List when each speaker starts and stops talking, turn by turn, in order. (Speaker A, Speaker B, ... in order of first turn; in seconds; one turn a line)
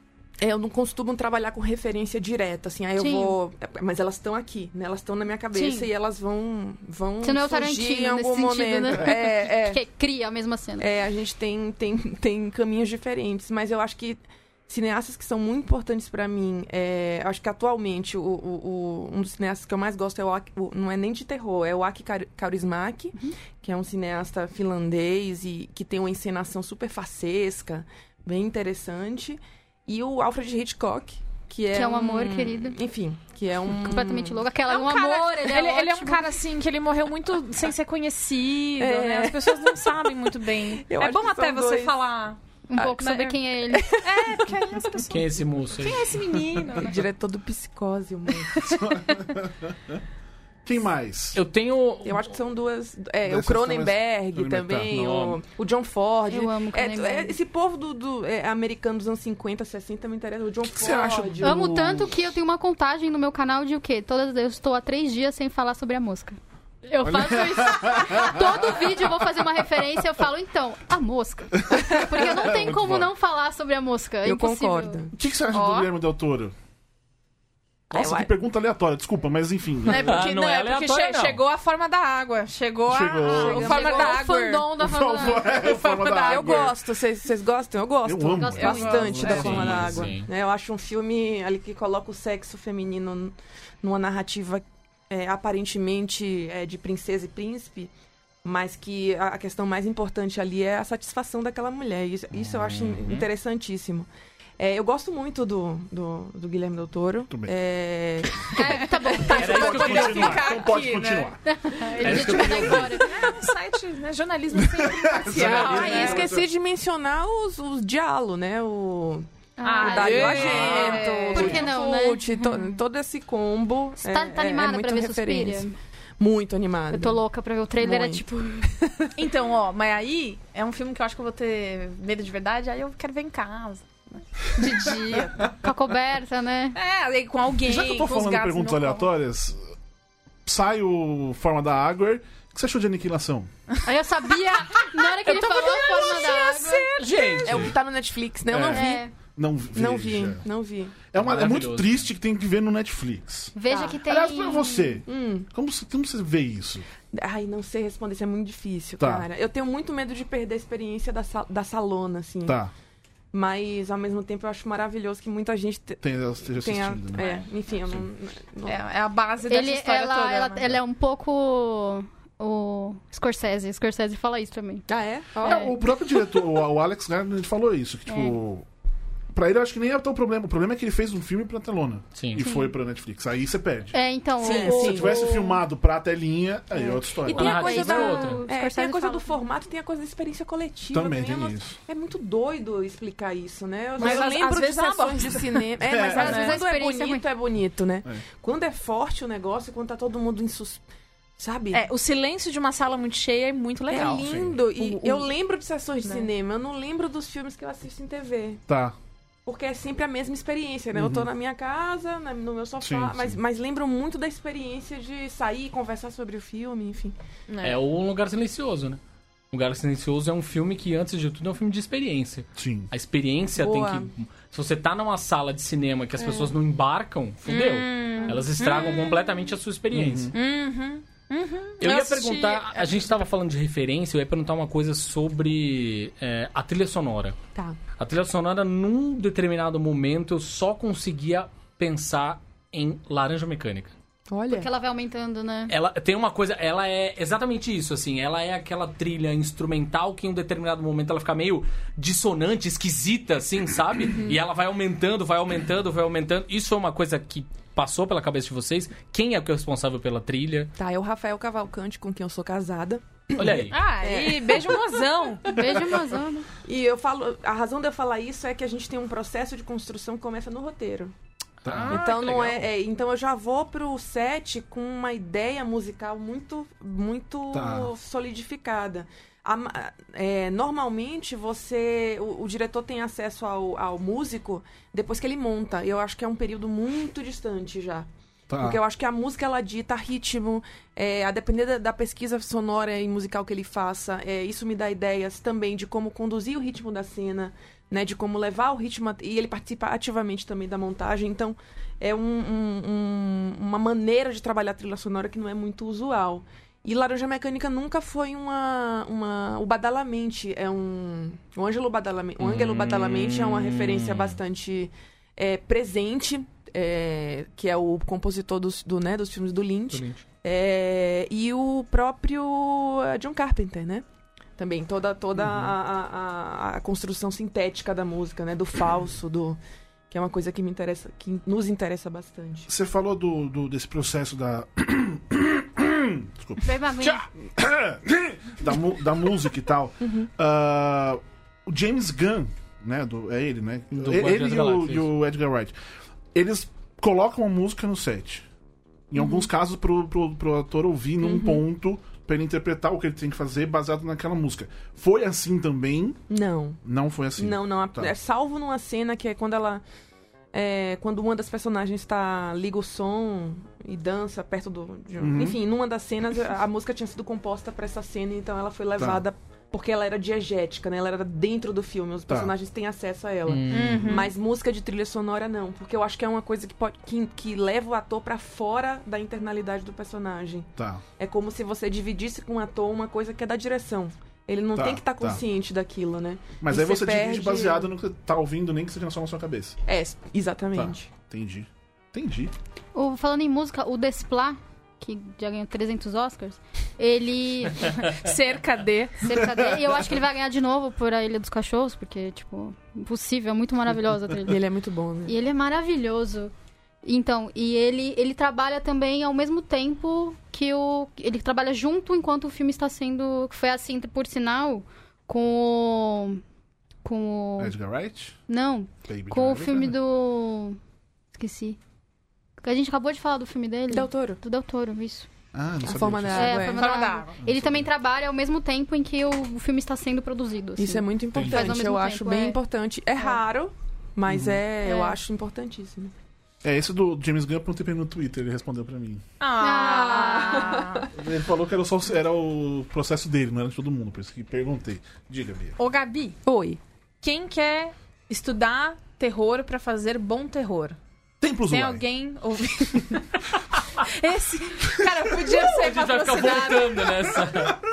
Speaker A: 0.4-9.8
Speaker B: 3.0-3.4
Speaker B: 5.5-5.9
Speaker B: 7.2-10.9
Speaker A: 10.8-34.4
Speaker B: 31.7-32.8
Speaker B: 33.8-36.3
Speaker C: 34.7-43.4
Speaker A: 38.8-40.2
Speaker A: 40.8-42.0
Speaker B: 42.7-43.9
Speaker A: 43.8-44.5
Speaker C: 44.0-47.0
Speaker D: 45.1-46.3
Speaker A: 46.7-48.9
Speaker E: 48.6-50.0
Speaker E: 50.6-51.4
Speaker D: 51.3-52.3
Speaker A: 52.0-61.7
Speaker E: 53.2-55.3
Speaker D: 55.0-55.3
Speaker B: 56.3-57.3
Speaker E: 60.6-62.2
Speaker B: 61.4-75.0
Speaker E: 67.0-69.0
Speaker E: 71.6-73.1
Speaker A: 74.2-75.1
Speaker E: 75.1-76.5
Speaker C: 75.5-75.9
Speaker A: 77.9-78.3
Speaker E: 77.9-80.2
Speaker C: 79.8-86.8
Speaker D: 79.9-81.4
Speaker E: 82.9-83.9
Speaker B: 83.2-85.6
Speaker A: 83.3-84.2
Speaker E: 84.8-86.8
Speaker A: 86.2-97.9
Speaker E: 88.0-90.1
Speaker B: 88.3-89.3
Speaker C: 88.6-89.5
Speaker D: 89.2-90.3
Speaker A: 98.4-104.1
Speaker D: 102.8-103.3
Speaker A: 104.6-108.8
Speaker B: 108.5-110.0
Speaker C: 108.7-116.3
Speaker D: 109.3-110.6
Speaker E: 109.3-111.4
Speaker B: 111.5-113.2
Speaker D: 112.0-113.0
Speaker E: 112.0-112.9
Speaker E: 114.5-116.5
Speaker A: 115.3-119.3
Speaker B: 119.6-122.7
Speaker C: 119.6-121.6
Speaker A: 119.8-125.7
Speaker D: 120.3-120.8
Speaker B: 124.0-125.7
Speaker A: 126.2-127.2
Speaker B: 126.9-128.7
Speaker A: 127.8-128.2
Speaker A: 128.8-129.1
Speaker C: 129.2-135.5
Speaker B: 135.4-136.8
Speaker C: 136.7-139.1
Speaker E: 137.6-139.7
Speaker E: 140.4-143.5
Speaker B: 143.8-146.9
Speaker C: 144.5-147.7
Speaker D: 147.0-147.8
Speaker A: 147.4-149.0
Speaker E: 148.5-150.4
Speaker B: 148.7-149.1
Speaker A: 149.7-151.0
Speaker E: 151.1-156.9
Speaker D: 151.2-152.1
Speaker B: 153.6-155.0
Speaker A: 155.1-155.5
Speaker A: 157.1-162.6
Speaker E: 159.0-159.3
Speaker E: 162.4-162.7
Speaker A: 163.3-168.8
Speaker E: 166.0-167.3
Speaker C: 167.2-167.4
Speaker C: 168.6-170.8
Speaker B: 169.5-174.9
Speaker A: 174.9-175.8
Speaker B: 175.4-175.7
Speaker E: 175.4-178.7
Speaker B: 178.1-178.4
Speaker E: 179.3-183.9
Speaker D: 182.2-182.4
Speaker B: 182.4-182.7
Speaker B: 183.9-185.2
Speaker A: 184.4-185.6
Speaker C: 184.5-185.3
Speaker E: 184.5-187.6
Speaker A: 186.8-200.8
Speaker B: 187.3-189.3
Speaker D: 187.3-188.4
Speaker E: 190.9-191.8
Speaker C: 194.0-195.7
Speaker E: 195.8-196.5
Speaker B: 196.0-197.2
Speaker C: 196.2-196.5
Speaker A: 201.4-201.8
Speaker C: 201.7-205.3
Speaker A: 203.9-208.6
Speaker E: 204.2-204.6
Speaker E: 208.7-208.9
Speaker A: 209.4-217.1
Speaker E: 210.9-211.3
Speaker E: 212.8-213.4
Speaker C: 217.5-217.8
Speaker D: 217.6-219.0
Speaker D: 219.5-230.3
Speaker E: 222.6-222.9
Speaker A: 223.6-224.1
Speaker C: 227.5-229.3
Speaker E: 229.9-230.3
Speaker C: 230.3-233.2
Speaker D: 231.8-237.4
Speaker D: 238.0-243.9
Speaker A: 244.3-244.7
Speaker B: 244.5-245.7
Speaker D: 245.7-260.7
Speaker A: 260.8-265.0
Speaker D: 263.4-263.8
Speaker C: 263.6-265.5
Speaker B: 265.5-266.5
Speaker A: 266.6-271.1
Speaker E: 271.6-272.1
Speaker D: 271.6-272.6
Speaker A: 271.9-324.1
Speaker E: 277.5-277.9
Speaker E: 288.5-288.8
Speaker D: 312.4-314.4
Speaker D: 319.9-320.2
Speaker A: 324.6-329.6
Speaker E: 325.4-325.7
Speaker A: 330.1-332.7
Speaker E: 332.7-345.7
Speaker B: 336.6-337.2
Speaker A: 340.0-340.3
Speaker D: 343.9-345.1
Speaker E: 346.3-348.4
Speaker E: 349.1-356.2
Speaker A: 349.2-349.5
Speaker A: 351.2-351.6
Speaker A: 356.3-356.8
Speaker E: 356.8-358.1
Speaker A: 357.4-359.8
Speaker A: 360.5-387.9
Speaker E: 365.2-365.6
Speaker E: 369.0-369.2
Speaker D: 373.5-374.3
Speaker C: 373.7-374.3
Speaker E: 380.8-381.0
Speaker E: 384.7-385.4
Speaker E: 386.6-389.8
Speaker A: 389.9-391.1
Speaker E: 390.7-392.5
Speaker B: 392.9-398.0
Speaker C: 398.0-399.2
Speaker B: 399.2-404.6
Speaker E: 399.4-399.9
Speaker A: 404.4-405.3
Speaker B: 405.3-406.5
Speaker B: 407.0-416.4
Speaker B: 417.0-417.8
Speaker E: 417.6-418.4
Speaker B: 418.5-420.8
Speaker E: 419.1-419.9
Speaker B: 421.3-421.8
Speaker B: 422.6-425.3
Speaker A: 423.9-424.4
Speaker E: 425.5-426.7
Speaker A: 425.8-426.8
Speaker B: 426.3-432.6
Speaker C: 426.7-427.4
Speaker E: 427.4-427.9
Speaker A: 430.8-436.1
Speaker E: 431.3-431.8
Speaker E: 434.3-434.6
Speaker B: 434.8-435.1
Speaker E: 436.6-439.2
Speaker C: 439.4-441.1
Speaker B: 439.6-440.7
Speaker A: 440.3-441.1
Speaker E: 441.1-445.8
Speaker C: 445.8-446.4
Speaker A: 446.4-446.8
Speaker C: 447.2-451.0
Speaker E: 451.4-452.0
Speaker C: 451.6-457.2
Speaker D: 455.7-457.8